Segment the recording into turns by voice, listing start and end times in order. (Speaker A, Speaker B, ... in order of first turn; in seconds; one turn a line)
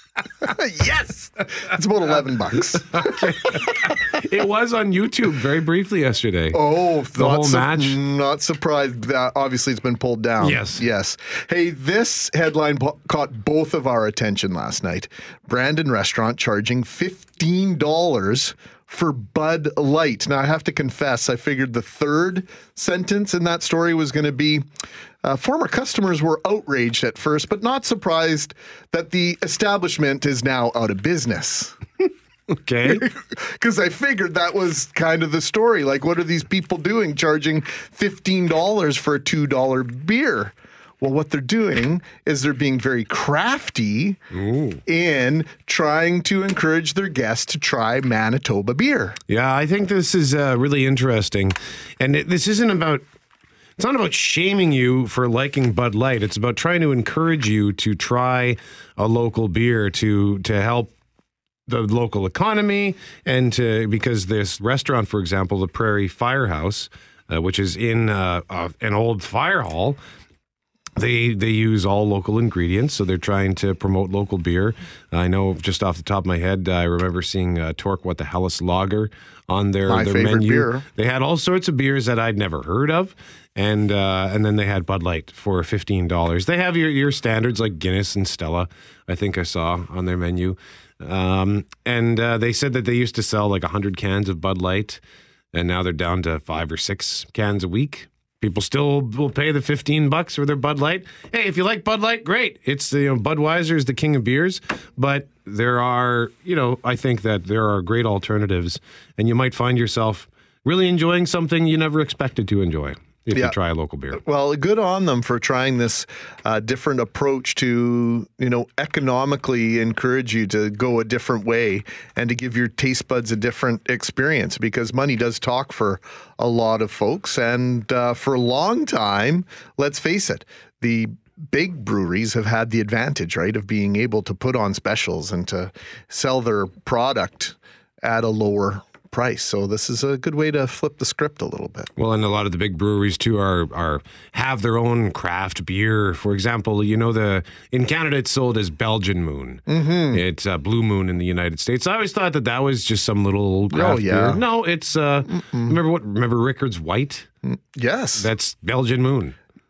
Speaker A: 0.4-3.1
Speaker B: 2.9-6.6
Speaker A: 6.5-24.6
Speaker B: 7.2-8.0
Speaker B: 10.4-10.8
Speaker A: 25.2-31.8
Speaker B: 32.5-33.1
Speaker A: 32.8-44.2
Speaker B: 44.3-44.8
Speaker A: 44.9-49.2
Speaker B: 49.3-53.0
Speaker B: 53.8-60.9
Speaker B: 61.7-70.0
Speaker B: 71.0-95.0
Speaker A: 79.9-80.8
Speaker B: 95.5-114.2
Speaker A: 114.1-141.9
Speaker B: 142.0-149.6
Speaker A: 149.7-150.2
Speaker B: 150.1-157.3
Speaker A: 153.7-154.4
Speaker A: 155.3-155.8
Speaker A: 157.4-158.3
Speaker B: 158.2-159.3